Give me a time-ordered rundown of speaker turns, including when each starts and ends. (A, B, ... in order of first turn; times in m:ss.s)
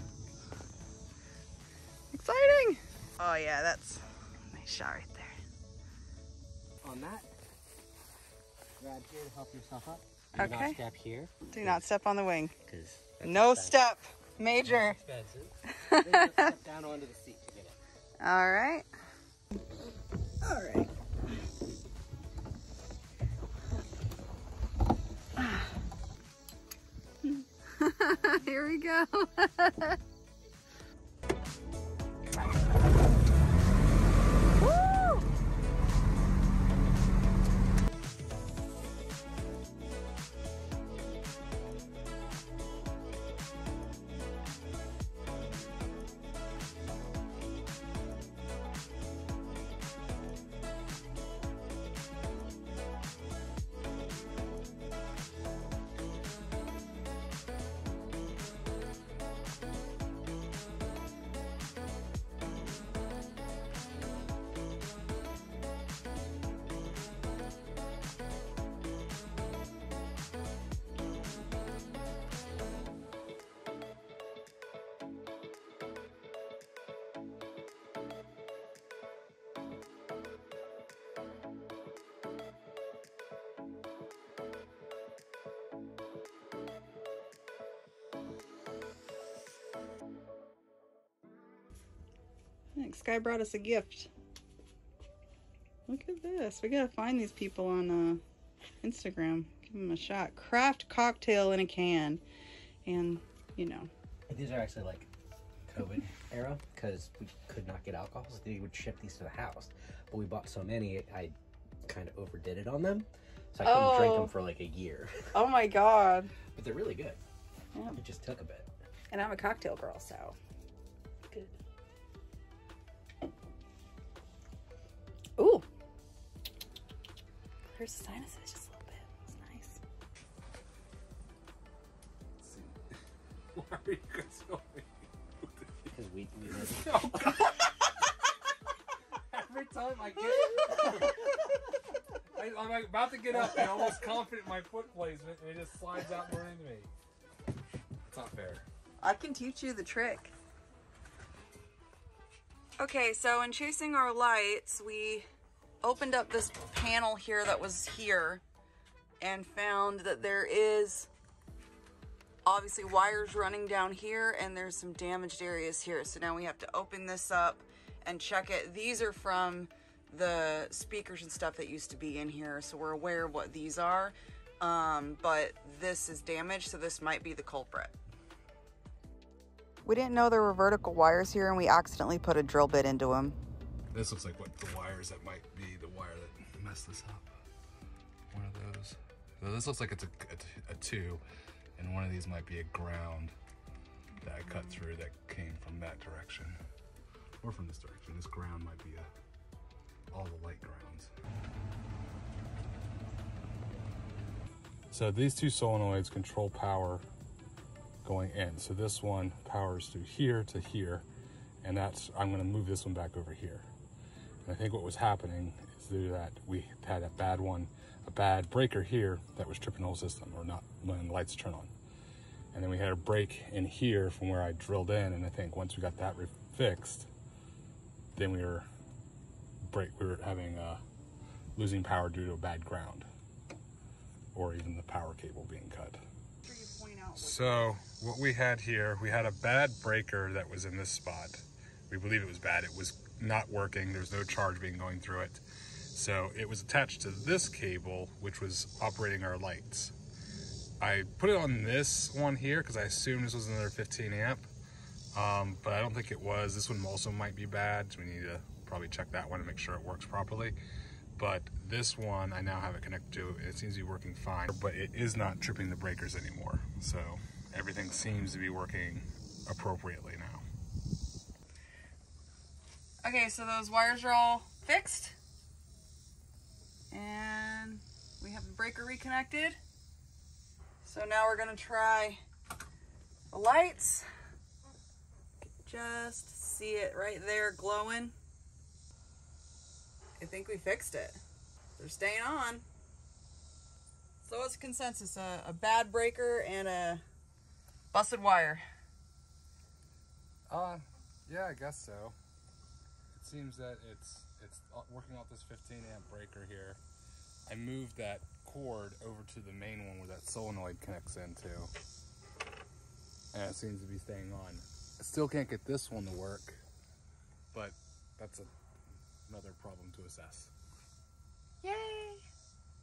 0:02.1-0:05.4 A
0:06.8-0:07.3 B
0:08.8-0:11.8 B
0:10.4-0:10.8 A
0:11.5-0:12.5 A
0:12.6-0:13.8 B
0:13.2-0:15.0 A
0:14.7-0:17.8 B
0:15.7-0:16.5 A
0:18.2-0:18.9 A
0:20.4-0:20.9 A
0:25.4-0:25.7 A
0:27.2-0:30.0 A
0:34.6-0:35.2 A
1:32.8-1:34.1 A
1:35.9-1:38.2 A
1:38.8-1:42.2 A
1:42.8-1:43.9 A
1:44.3-1:45.1 B
1:45.7-1:55.4 B
1:53.6-1:54.4 A
1:55.3-1:56.3 A
1:56.5-1:57.2 B
1:57.7-1:58.0 A
1:58.0-1:58.7 B
1:59.1-2:00.4 A
2:01.3-2:01.6 A
2:05.4-2:05.7 A
2:07.7-2:09.8 A
2:12.4-2:12.8 C
2:13.6-2:14.9 C
2:15.6-2:15.9 C
2:15.9-2:17.3 B
2:16.5-2:17.7 C
2:19.3-2:21.2 C
2:22.4-2:26.9 C
2:28.0-2:28.6 C
2:29.0-2:30.3 A
2:32.8-2:35.3 A
2:35.8-2:38.4 A
2:39.2-2:41.1 A
2:42.4-2:57.9 A
2:59.8-3:03.4 A
3:03.9-3:07.3 C
3:08.3-3:11.2 C
3:11.8-3:13.3 C
3:14.2-3:16.6 C
3:17.4-3:19.1 C
3:20.1-3:21.1 C
3:24.9-3:27.0 C
3:28.0-3:31.0 C
3:31.6-3:33.6 C
3:34.5-3:41.7 C
3:42.5-3:47.1 C
3:48.2-3:48.7 C
3:49.6-3:50.8 C
3:51.6-3:53.1 C
3:54.3-3:56.0 C
3:56.4-3:57.7 A
3:57.2-4:05.4 C
4:05.9-4:09.9 C
4:10.8-4:14.5 C
4:15.1-4:20.6 C
4:21.2-4:30.4 C
4:33.0-4:35.2 A
4:36.9-4:39.6 A
4:40.8-4:42.2 A
4:43.3-4:44.1 A
4:45.4-4:48.1 A
4:50.2-4:51.2 A
4:51.8-4:52.6 A
4:54.2-4:57.0 A
4:57.9-4:58.6 A
5:00.5-5:02.2 C
5:03.1-5:06.8 C
5:07.5-5:11.7 C
5:13.3-5:16.6 C
5:17.5-5:18.5 C
5:19.3-5:20.5 C
5:21.6-5:22.2 A